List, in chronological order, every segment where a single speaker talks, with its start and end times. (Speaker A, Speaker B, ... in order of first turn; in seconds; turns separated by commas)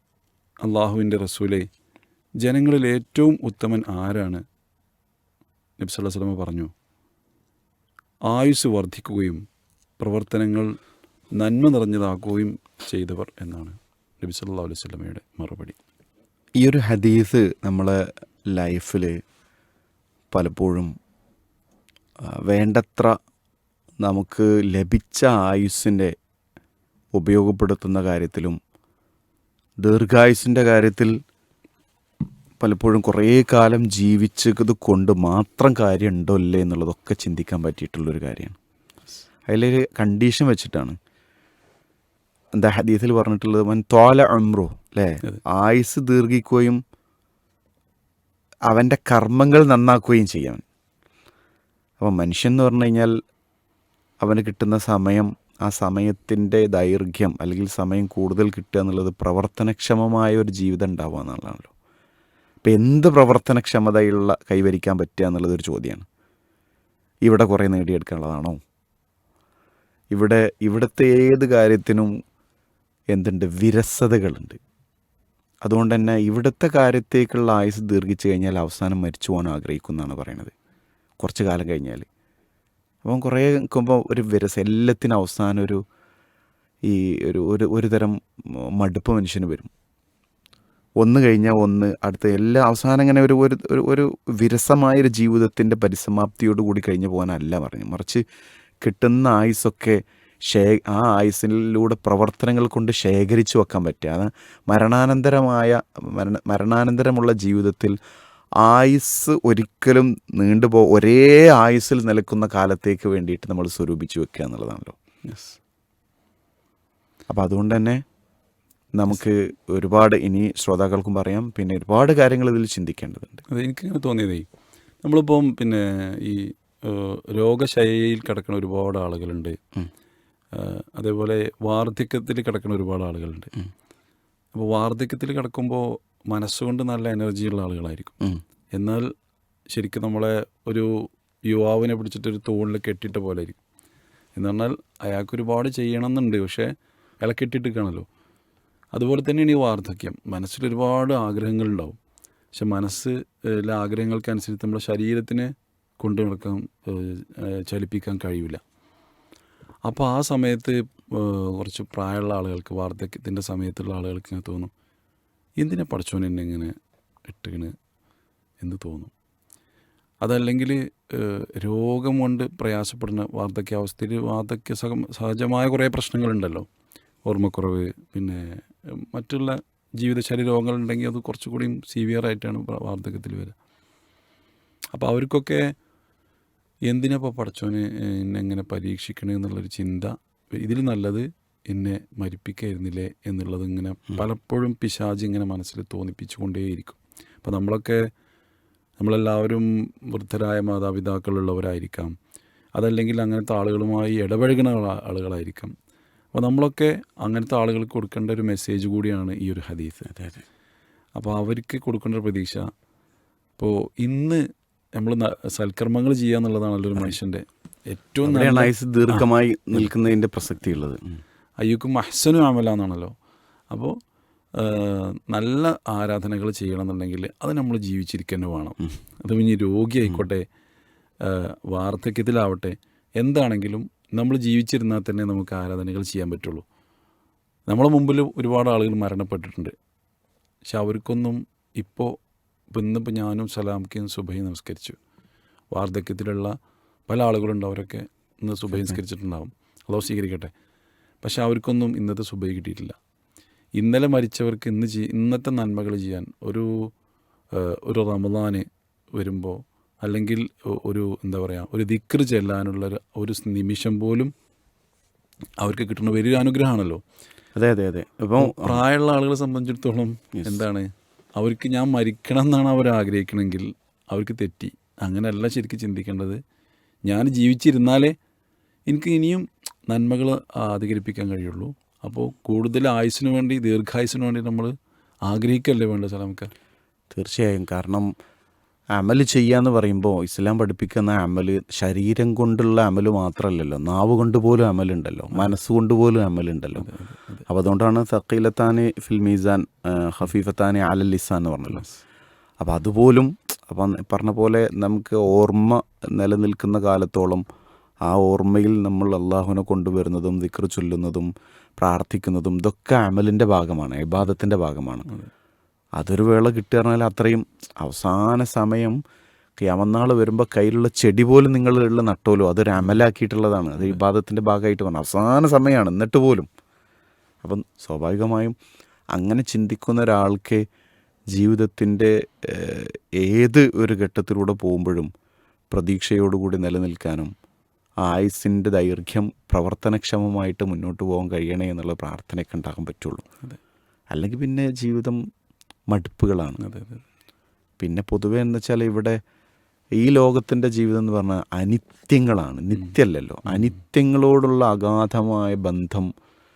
Speaker A: 0.6-1.7, Speaker A: 2.4-4.4, Speaker A: 5.8-6.7, Speaker A: 8.3-9.4, Speaker A: 10.0-10.7, Speaker A: 11.3-15.8, Speaker B: 16.6-19.2, Speaker B: 20.3-20.9, Speaker B: 22.3-23.2, Speaker B: 24.0-26.1, Speaker B: 27.1-28.6, Speaker B: 29.8-31.1, Speaker B: 32.6-38.6, Speaker B: 39.5-41.0, Speaker B: 42.5-46.8, Speaker B: 48.7-50.6, Speaker B: 52.0-53.1, Speaker B: 54.2-61.7, Speaker B: 62.6-66.0, Speaker B: 67.2-68.6, Speaker B: 70.1-72.1, Speaker B: 73.1-74.6, Speaker B: 75.6-80.5, Speaker B: 81.2-82.1, Speaker B: 83.0-85.8, Speaker B: 86.8-89.7, Speaker B: 91.0-98.2, Speaker B: 98.8-108.0, Speaker B: 108.6-115.0, Speaker A: 115.2-115.6, Speaker B: 117.3-118.0, Speaker B: 118.9-123.4, Speaker A: 123.5-124.5, Speaker A: 125.0-129.6, Speaker A: 130.5-133.5, Speaker A: 134.5-138.2, Speaker A: 138.8-139.1, Speaker A: 139.7-140.9, Speaker A: 141.5-143.6, Speaker A: 144.3-148.1, Speaker A: 148.9-152.0, Speaker A: 152.5-158.6, Speaker A: 159.8-164.7, Speaker A: 165.6-166.7, Speaker A: 167.3-167.7, Speaker A: 168.6-169.1, Speaker A: 170.2-176.7, Speaker A: 177.2-183.5, Speaker A: 184.9-185.7, Speaker A: 186.9-198.0, Speaker A: 199.0-202.1, Speaker A: 202.8-205.7, Speaker A: 206.3-210.1, Speaker B: 210.1-210.4, Speaker A: 211.2-212.7, Speaker A: 213.6-214.4, Speaker A: 214.9-219.9, Speaker B: 218.2-221.2, Speaker A: 221.6-223.1, Speaker A: 223.7-224.0, Speaker A: 224.6-230.4, Speaker A: 231.2-236.6, Speaker A: 237.7-239.7, Speaker A: 240.7-242.2, Speaker A: 242.7-245.0, Speaker A: 245.7-246.5, Speaker A: 247.1-250.5, Speaker B: 248.7-249.0, Speaker A: 251.2-252.9, Speaker A: 253.8-256.9, Speaker A: 257.5-258.6, Speaker A: 259.1-264.3, Speaker A: 265.6-267.0, Speaker B: 267.6-268.8, Speaker A: 268.4-276.4, Speaker A: 277.1-278.1, Speaker A: 278.9-284.7, Speaker A: 285.3-286.5, Speaker B: 287.1-288.1, Speaker B: 288.9-296.9, Speaker A: 296.8-297.4, Speaker B: 297.5-301.9, Speaker A: 301.7-302.0, Speaker B: 302.6-307.4, Speaker B: 308.0-315.1, Speaker B: 316.0-319.0, Speaker B: 319.6-326.5, Speaker B: 327.4-328.6, Speaker B: 329.1-330.6, Speaker B: 331.3-335.1, Speaker B: 335.7-337.3, Speaker B: 338.0-343.2, Speaker B: 344.1-345.2, Speaker B: 345.9-346.6, Speaker A: 346.6-347.0, Speaker B: 347.8-349.2, Speaker B: 350.0-356.1, Speaker A: 353.4-353.8